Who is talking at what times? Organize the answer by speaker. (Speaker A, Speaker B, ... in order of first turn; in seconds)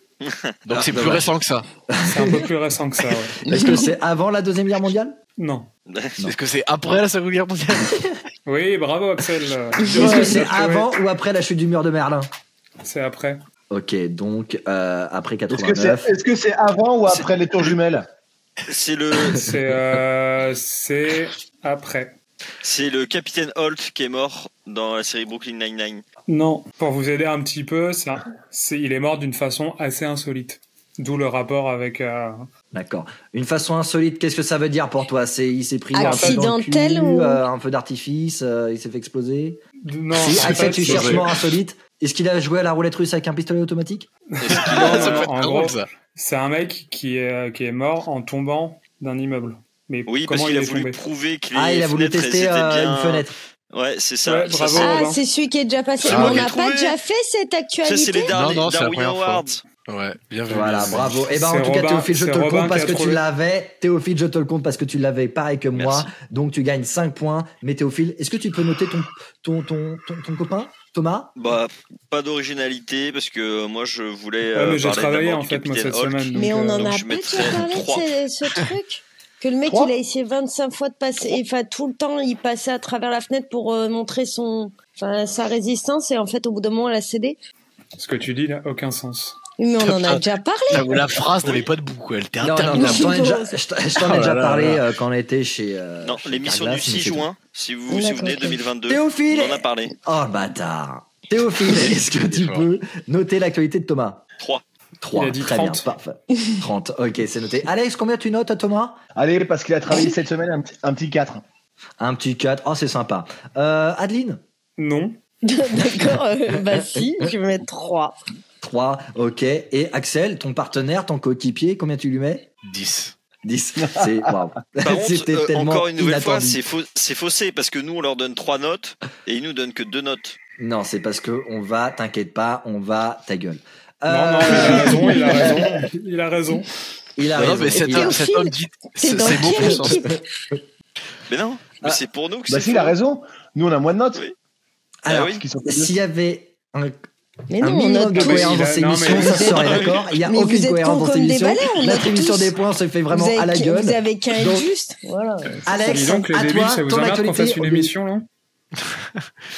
Speaker A: 0.2-0.5, 5.9-6.2, 18.7-19.5, 22.6-26.0, 44.4-45.3, 50.1-55.0, 56.0-57.0, 57.8-59.6, 65.7-66.1, 71.3-78.1, 96.0-99.9, 124.8-130.4, 141.3-142.9, 145.1-145.4, 149.5-150.1
Speaker B: 0.7-1.7, 6.2-8.1, 9.9-10.5, 40.4-41.2, 44.5-45.9, 56.0-56.5, 58.3-61.3, 89.8-93.2, 94.0-94.8, 101.9-102.6, 122.7-123.1, 137.3-140.1, 158.8-159.2
Speaker C: 0.8-1.3, 1.9-2.5, 3.4-5.2, 9.9-12.3, 13.7-16.1, 32.7-39.6, 40.1-44.1, 51.5-53.3, 60.5-71.3, 92.4-97.3, 98.9-104.2, 105.0-109.0, 112.0-114.4, 118.6-122.5, 123.4-126.6, 130.6-135.5, 137.2-138.2, 139.5-140.0, 145.1-146.9, 147.6-154.7, 155.7-157.9
Speaker D: 2.0-3.4, 5.4-5.7, 8.4-10.9, 12.8-13.4, 19.3-22.1, 26.3-32.5, 36.0-36.5, 39.9-41.4, 44.3-51.0, 54.2-55.2, 61.3-63.2, 74.5-76.9, 88.0-89.4, 105.1-105.9, 114.8-115.2, 134.1-136.7, 148.2-149.6, 155.5-158.3
Speaker E: 3.5-3.9, 9.9-10.4, 35.9-37.4, 54.7-58.3, 76.3-87.4, 89.6-91.0, 92.7-93.6, 97.9-98.5, 115.4-118.2, 137.8-140.2, 147.5-152.5, 153.1-155.6
Speaker F: 15.5-18.1, 79.6-79.9, 109.2-111.4, 123.8-124.3, 135.4-135.9, 142.5-144.2, 145.3-145.9